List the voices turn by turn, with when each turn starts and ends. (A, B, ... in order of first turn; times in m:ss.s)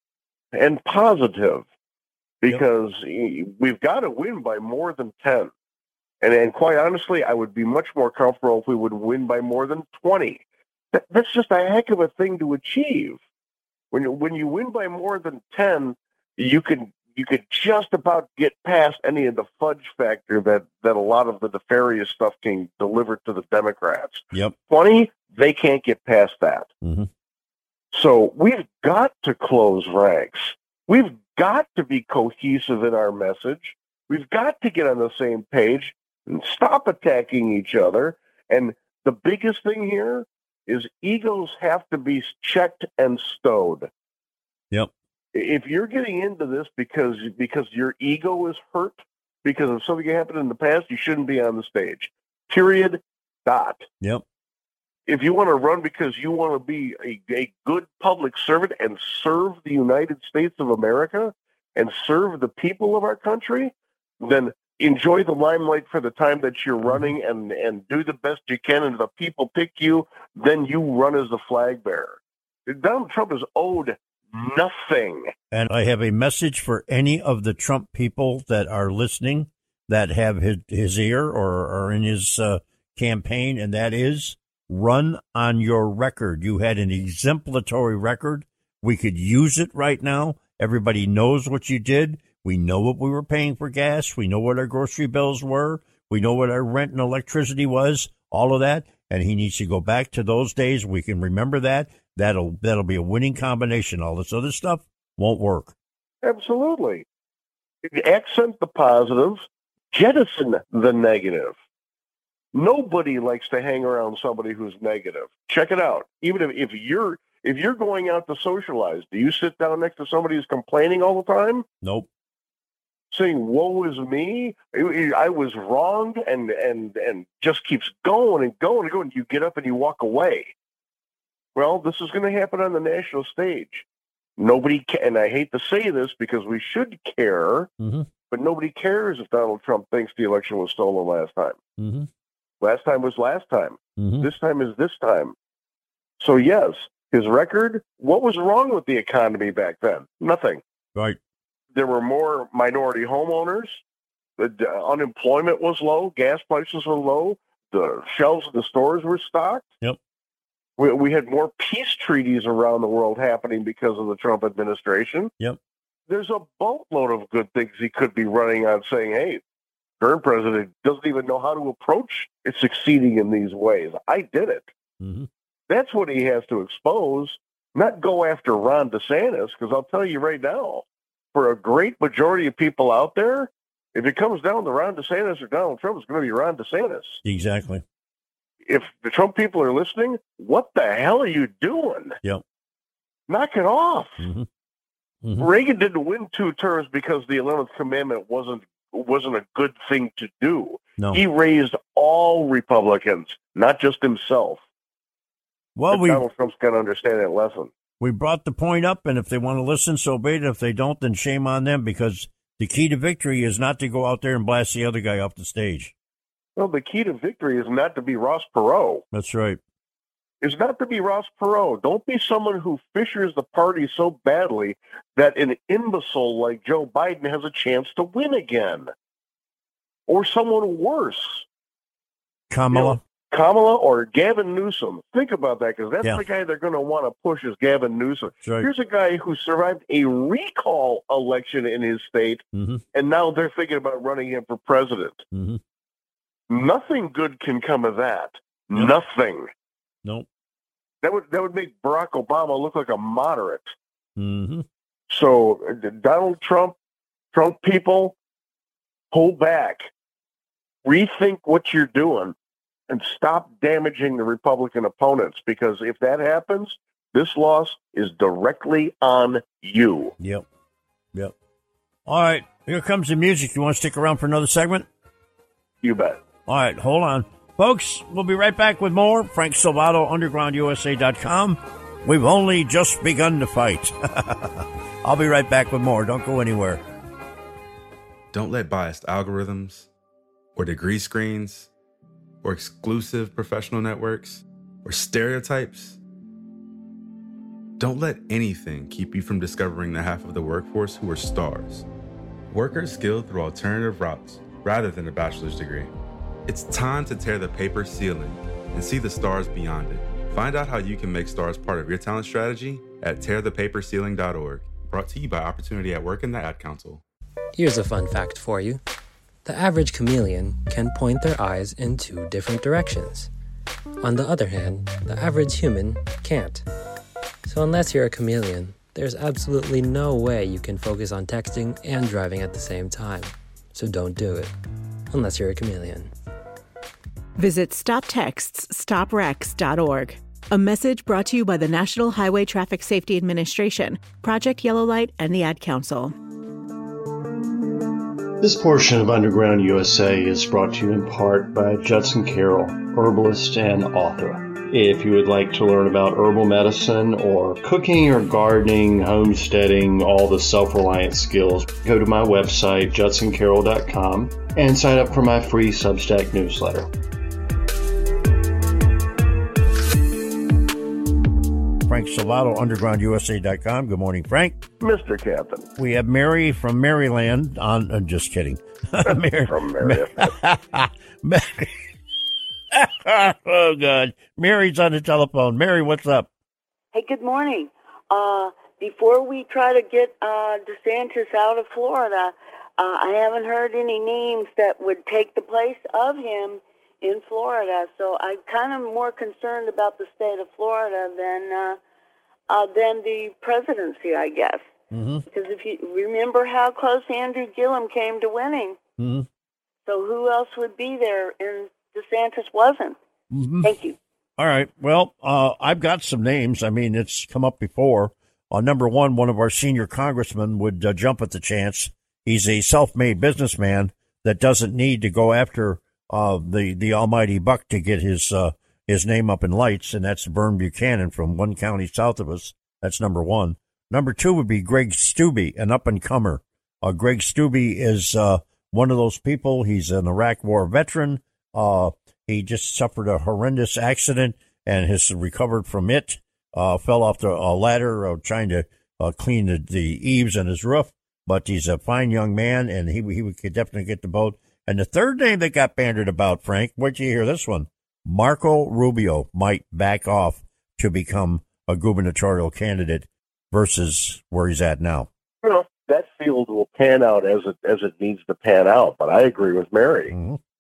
0:00.5-0:01.6 A
0:02.4-0:05.5 A
0:06.2-0:13.2 A
0:13.9-0:26.7 A
0:26.8-0:27.1 B
0:27.9-0:43.9 A
0:45.3-0:53.9 A
0:55.1-1:15.3 A
1:15.5-1:45.7 B
1:46.2-1:47.0 A
1:47.8-1:51.6 A
1:52.5-2:01.7 A
2:01.8-2:02.1 B
2:03.1-2:10.5 A
2:11.6-2:13.8 A
2:14.4-2:17.7 A
2:17.8-2:18.1 B
2:18.3-2:21.6 A
2:21.8-2:22.1 B
2:22.6-2:25.4 A
2:24.0-2:24.3 B
2:26.2-2:30.6 A
2:31.7-2:33.8 A
2:34.4-2:39.7 A
2:40.8-2:45.3 A
2:46.1-2:49.4 A
2:50.0-2:54.7 A
2:55.0-2:55.3 B
2:55.7-3:07.2 A
3:07.2-3:07.8 B
3:08.7-3:12.2 A
3:13.3-3:14.3 A
3:14.2-3:14.5 B
3:15.2-3:15.5 B
3:15.4-3:24.6 A
3:25.8-3:26.2 B
3:25.9-3:27.7 A
3:28.0-3:35.9 B
3:36.6-3:39.0 A
3:39.1-3:39.6 B
3:40.4-3:48.9 A
3:50.1-3:51.5 A
3:52.5-3:53.0 B
3:52.7-4:02.4 A
3:58.4-3:58.7 B
4:02.5-4:02.8 B
4:02.9-4:05.2 A
4:05.3-4:05.6 B
4:06.5-4:09.5 A
4:11.0-4:13.8 A
4:14.2-4:14.6 B
4:15.1-4:16.8 A
4:17.3-4:18.2 A
4:19.1-4:19.9 A
4:20.8-4:22.4 A
4:22.9-4:30.2 A
4:30.2-4:30.4 B
4:32.1-4:34.9 B
4:35.8-4:36.2 A
4:36.5-4:46.8 B
4:48.3-4:49.9 C
4:50.6-4:51.7 C
4:52.4-4:56.0 C
4:57.8-5:01.9 C
5:02.5-5:05.9 C
5:06.5-5:17.0 C
5:17.6-5:18.8 D
5:19.4-5:23.3 D
5:24.0-5:26.6 D
5:27.5-5:34.5 D
5:35.1-5:36.1 D
5:37.4-5:46.1 E
5:48.4-6:06.9 F
6:11.9-6:14.6 B
6:14.8-6:15.7 A
6:15.8-6:21.7 B
6:19.1-6:20.3 A
6:22.7-6:26.3 B
6:26.9-6:41.8 G
6:42.5-6:44.7 G
6:44.9-6:45.2 B
6:45.3-6:48.8 G
6:49.0-6:49.3 B
6:49.9-6:53.0 G
6:53.3-6:53.7 B
6:53.6-6:54.0 G
6:54.4-7:45.1 B
7:45.4-7:50.1 A
7:50.1-7:50.4 B